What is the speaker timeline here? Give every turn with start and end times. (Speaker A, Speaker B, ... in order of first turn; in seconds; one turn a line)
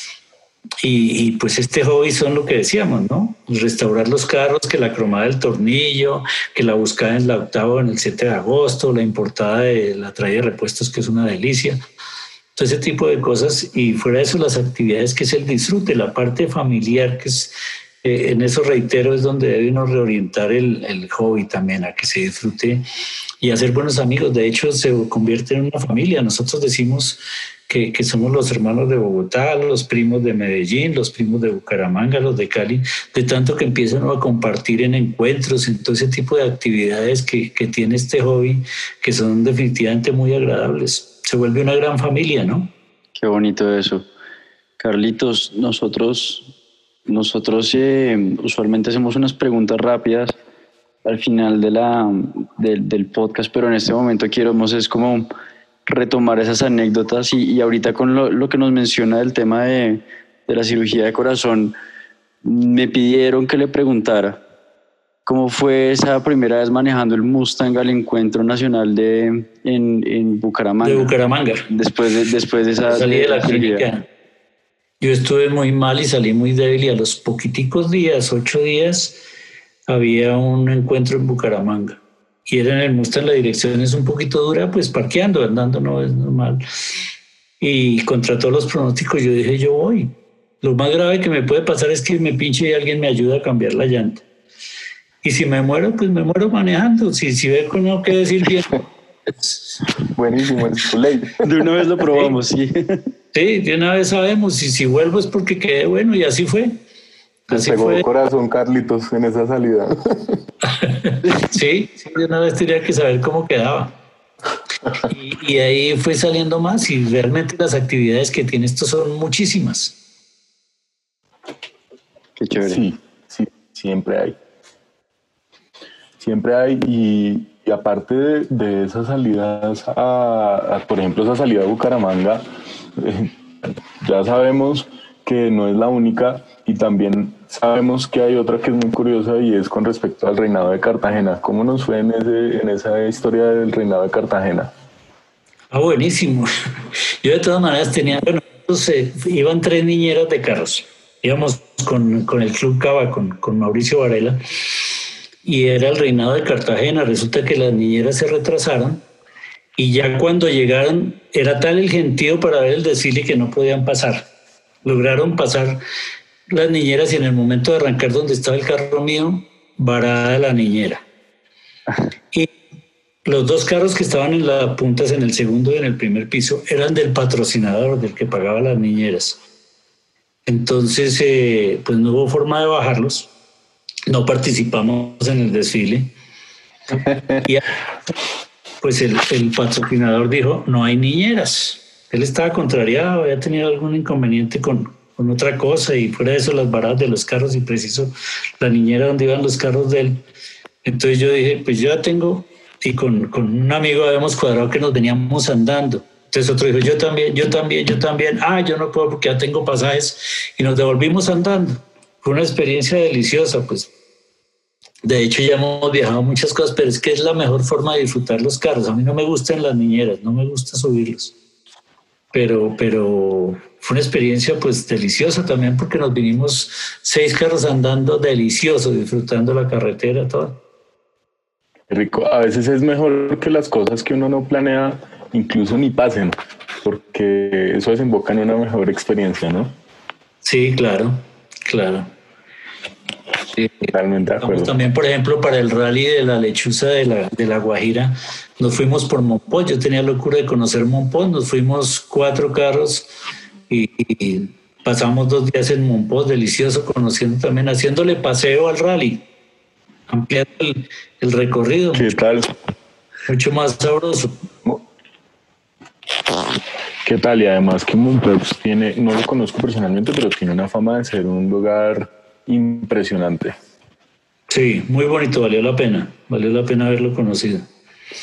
Speaker A: 0.8-11.8
Speaker A: 12.5-22.8
Speaker A: 23.4-42.7
Speaker B: 43.2-44.1
Speaker B: 44.8-46.5
Speaker B: 47.1-50.3
Speaker B: 51.0-55.3
Speaker B: 55.9-61.8
Speaker B: 62.4-64.4
Speaker B: 65.2-71.1
Speaker A: 70.8-71.7
Speaker B: 71.7-73.8
Speaker A: 72.9-74.1
Speaker A: 75.0-79.2
Speaker A: 79.9-87.0
Speaker A: 87.6-94.2
Speaker A: 95.2-98.8
Speaker C: 100.0-101.4
Speaker B: 101.4-103.1
Speaker A: 103.3-106.8
Speaker A: 107.5-108.0
Speaker C: 107.5-110.4
Speaker A: 110.7-114.0
Speaker A: 115.1-120.0
Speaker B: 122.4-122.8
Speaker C: 122.6-124.4
Speaker C: 126.2-144.7
Speaker A: 145.7-146.5
Speaker A: 147.2-154.4
Speaker A: 155.4-159.1
Speaker A: 159.8-164.3
Speaker A: 164.8-165.8
Speaker A: 166.5-171.0
Speaker A: 173.2-179.4
Speaker A: 180.4-183.3
Speaker A: 184.1-186.1
Speaker A: 187.1-187.6
Speaker A: 188.8-200.2
Speaker A: 200.8-213.9
Speaker A: 215.0-221.3
Speaker A: 222.3-230.6
Speaker C: 231.9-239.7
Speaker A: 240.4-242.1
Speaker C: 243.8-244.7
Speaker A: 244.4-253.1
Speaker A: 253.7-259.2
Speaker A: 260.1-262.1
Speaker C: 261.9-262.5
Speaker A: 263.3-264.4
Speaker C: 267.0-273.5
Speaker A: 274.5-277.7